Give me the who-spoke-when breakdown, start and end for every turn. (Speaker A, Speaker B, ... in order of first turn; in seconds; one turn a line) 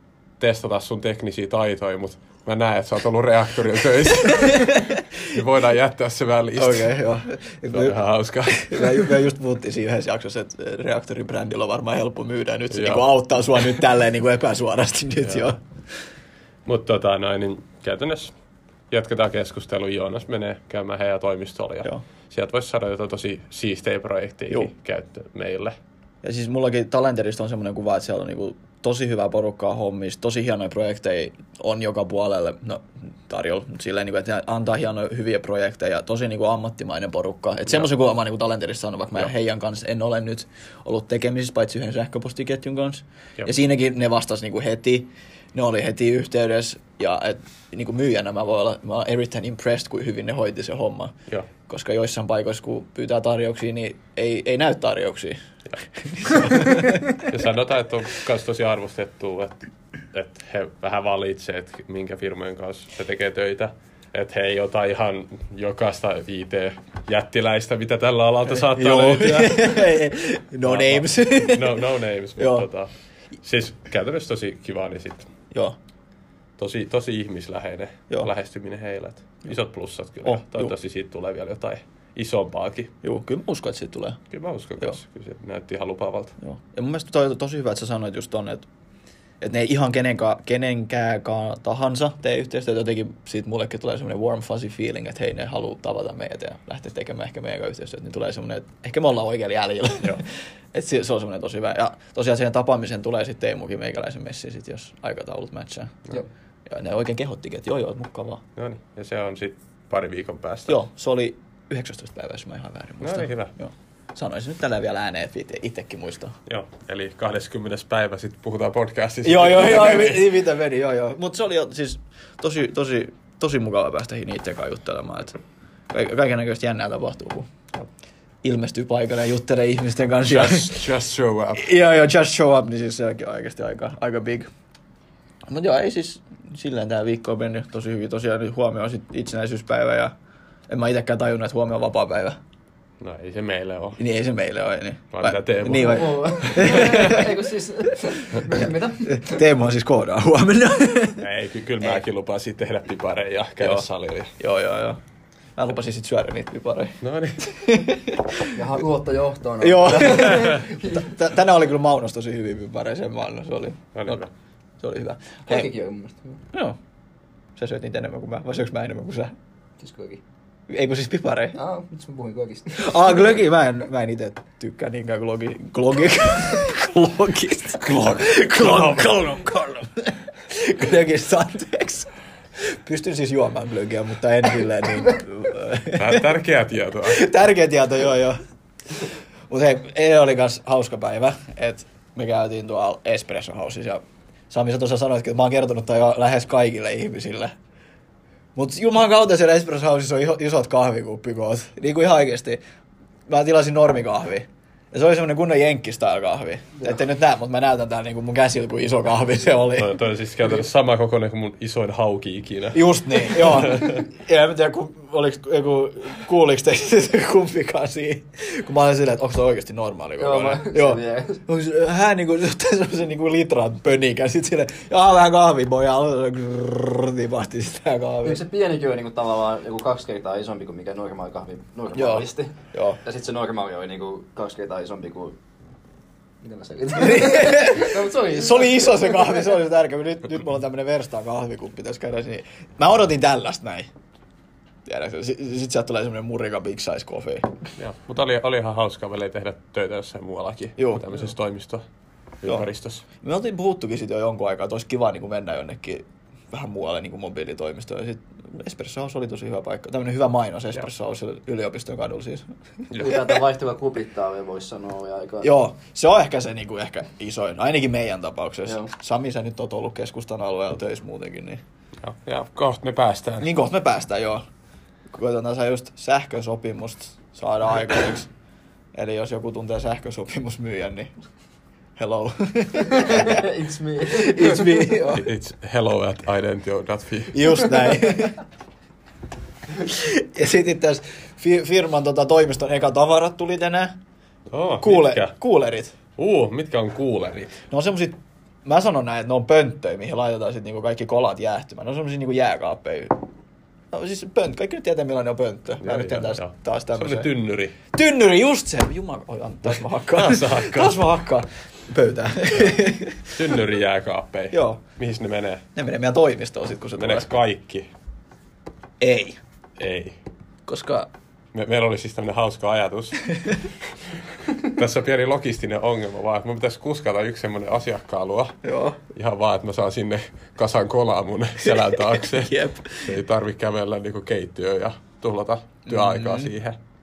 Speaker A: 0.4-6.9
Speaker B: 4.3-5.0
Speaker B: 6.6-8.0
Speaker A: 7.7-9.1
Speaker B: 8.5-15.6
Speaker A: 12.7-13.1
Speaker A: 15.2-15.5
Speaker A: 16.6-18.3
Speaker A: 18.9-25.8
Speaker B: 26.2-51.1
Speaker B: 51.6-55.4
Speaker B: 55.9-57.2
Speaker A: 57.2-70.0
Speaker B: 68.5-71.8
Speaker A: 70.6-72.9
Speaker B: 72.3-72.7
Speaker A: 73.4-75.3
Speaker A: 76.6-82.9
Speaker B: 80.2-80.7
Speaker B: 83.0-84.2
Speaker A: 84.3-86.3
Speaker B: 86.4-88.7
Speaker B: 89.4-108.4
Speaker A: 108.5-110.8
Speaker B: 110.7-116.3
Speaker A: 113.0-113.5
Speaker A: 116.5-120.3
Speaker B: 119.2-125.4
Speaker B: 125.9-127.5
Speaker B: 128.4-130.8
Speaker A: 130.2-131.7
Speaker B: 131.6-134.5
Speaker B: 135.5-140.1
Speaker B: 140.7-142.4
Speaker A: 143.0-144.0
Speaker B: 144.0-147.3
Speaker A: 145.1-147.2
Speaker C: 145.8-149.4
Speaker B: 148.4-151.2
Speaker A: 151.2-154.3
Speaker B: 154.4-155.0
Speaker B: 155.6-158.6
Speaker A: 157.0-157.4
Speaker C: 158.5-161.2
Speaker B: 159.6-164.2
Speaker A: 163.9-164.3
Speaker B: 164.8-165.7
Speaker C: 165.5-166.4
Speaker B: 166.5-166.8
Speaker B: 167.6-169.3
Speaker C: 169.8-170.2
Speaker B: 170.7-171.6
Speaker C: 171.6-173.2
Speaker B: 172.7-186.3
Speaker A: 177.8-179.2
Speaker A: 185.9-187.2
Speaker B: 187.0-188.4
Speaker B: 189.0-197.5
Speaker B: 198.5-202.6
Speaker B: 203.3-210.0
Speaker A: 209.8-213.9
Speaker B: 212.7-228.4
Speaker C: 220.2-221.4
Speaker C: 228.2-235.3
Speaker B: 231.9-233.0
Speaker C: 236.4-239.4
Speaker B: 237.0-243.9
Speaker B: 244.8-247.5
Speaker A: 247.8-251.8
Speaker B: 250.8-251.2
Speaker A: 252.4-253.0
Speaker B: 253.2-262.5
Speaker A: 262.9-263.2
Speaker C: 263.0-265.5
Speaker B: 265.4-271.6
Speaker A: 272.0-273.5
Speaker B: 273.4-274.4
Speaker B: 275.1-278.3
Speaker B: 278.9-281.1
Speaker B: 281.9-283.4
Speaker C: 282.8-285.0
Speaker B: 284.1-285.3
Speaker A: 285.1-287.6
Speaker B: 287.3-288.4
Speaker B: 289.8-293.9
Speaker A: 294.5-295.3
Speaker B: 294.8-295.9
Speaker A: 296.2-297.5
Speaker B: 297.7-303.1
Speaker B: 303.9-307.3
Speaker A: 305.8-307.8
Speaker B: 307.9-313.3
Speaker A: 309.7-311.0
Speaker A: 313.3-315.6
Speaker B: 314.5-314.8
Speaker B: 315.7-317.3
Speaker A: 317.0-317.9
Speaker B: 319.0-319.4
Speaker A: 319.8-320.2
Speaker B: 320.6-321.1
Speaker A: 321.5-328.5
Speaker B: 328.6-329.0
Speaker A: 329.1-336.8
Speaker B: 331.6-333.2
Speaker B: 335.9-336.5